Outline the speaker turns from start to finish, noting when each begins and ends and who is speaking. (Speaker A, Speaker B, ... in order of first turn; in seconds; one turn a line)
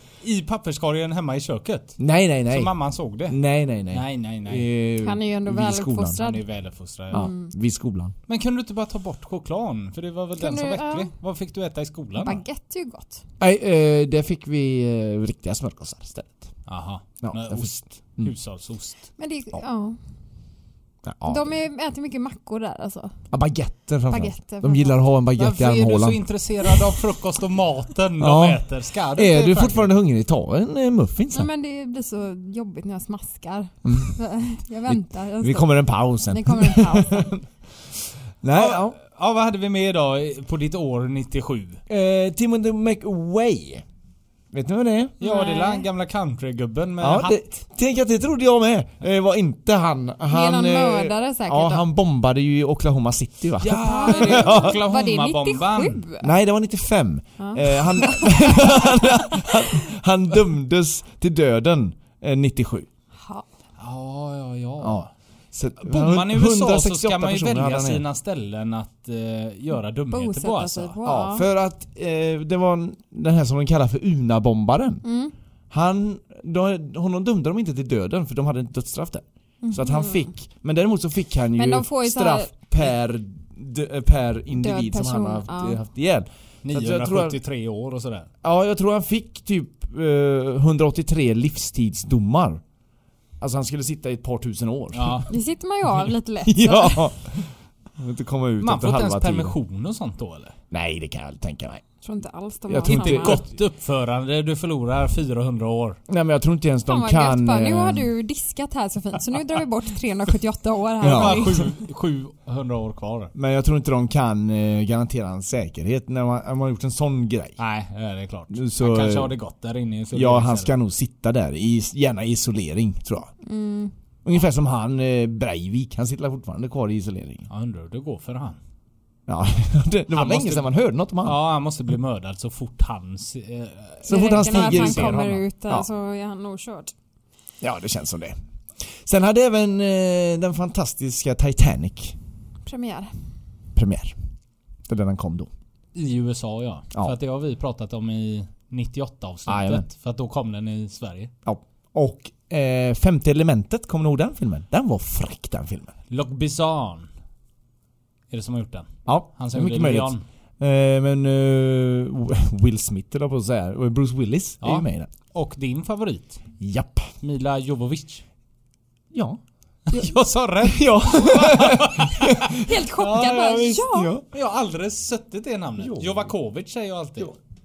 Speaker A: 0.2-4.7
Speaker B: 2.0-2.7
Speaker B: 3.3-6.2
Speaker C: 5.0-6.4
Speaker A: 6.2-7.3
Speaker C: 7.1-7.5
Speaker B: 7.1-8.1
Speaker A: 8.3-12.4
Speaker C: 10.4-11.1
Speaker C: 12.2-13.2
Speaker B: 13.4-16.5
Speaker A: 16.7-19.0
Speaker B: 17.2-18.3
Speaker C: 19.2-20.0
Speaker B: 21.0-21.5
Speaker C: 21.2-23.2
Speaker B: 23.3-26.2
Speaker C: 24.1-25.0
Speaker A: 25.4-29.9
Speaker B: 28.2-31.5
Speaker C: 31.3-37.4
Speaker B: 33.8-34.1
Speaker B: 34.9-37.4
Speaker B: 38.4-39.0
Speaker A: 38.5-41.8
Speaker B: 41.9-43.8
Speaker B: 44.5-45.2
Speaker C: 45.2-45.9
Speaker A: 45.2-47.5
Speaker B: 47.0-54.8
Speaker C: 50.3-51.9
Speaker A: 53.6-56.0
Speaker C: 53.8-56.3
Speaker B: 56.2-62.9
Speaker C: 57.4-59.7
Speaker C: 63.2-63.4
Speaker A: 63.8-65.1
Speaker B: 64.8-68.0
Speaker A: 65.8-71.0
Speaker C: 70.1-71.5
Speaker B: 71.0-75.0
Speaker C: 75.0-75.3
Speaker B: 75.7-87.4
Speaker C: 79.6-80.3
Speaker C: 81.5-82.5
Speaker C: 84.5-85.8
Speaker A: 86.6-88.3
Speaker B: 88.4-92.6
Speaker B: 93.4-95.2
Speaker A: 94.9-95.3
Speaker C: 95.3-97.1
Speaker B: 96.4-99.5
Speaker A: 98.6-100.5
Speaker B: 100.7-101.8
Speaker C: 102.0-103.4
Speaker B: 102.7-103.5
Speaker A: 102.8-106.0
Speaker B: 106.1-108.1
Speaker C: 106.9-111.7
Speaker B: 111.0-111.6
Speaker A: 111.0-113.3
Speaker B: 113.3-117.6
Speaker A: 117.6-120.7
Speaker B: 118.5-119.3
Speaker B: 120.1-123.3
Speaker C: 123.4-123.9
Speaker B: 124.2-127.5
Speaker A: 127.5-128.6
Speaker B: 129.3-131.4
Speaker A: 130.1-130.7
Speaker A: 131.2-135.4
Speaker C: 134.0-136.9
Speaker B: 134.1-135.9
Speaker B: 137.6-138.4
Speaker B: 139.0-142.2
Speaker C: 142.6-143.1
Speaker B: 143.7-144.2
Speaker B: 144.9-145.5
Speaker A: 145.9-151.3
Speaker B: 149.5-149.8
Speaker B: 151.4-155.9
Speaker A: 156.1-157.1
Speaker A: 158.3-160.2
Speaker B: 159.1-165.1
Speaker A: 164.6-166.4
Speaker B: 166.6-167.1
Speaker A: 167.2-168.2
Speaker B: 169.1-169.4
Speaker A: 169.9-177.3
Speaker B: 169.9-172.7
Speaker C: 172.5-174.1
Speaker B: 173.8-174.2
Speaker B: 175.8-176.3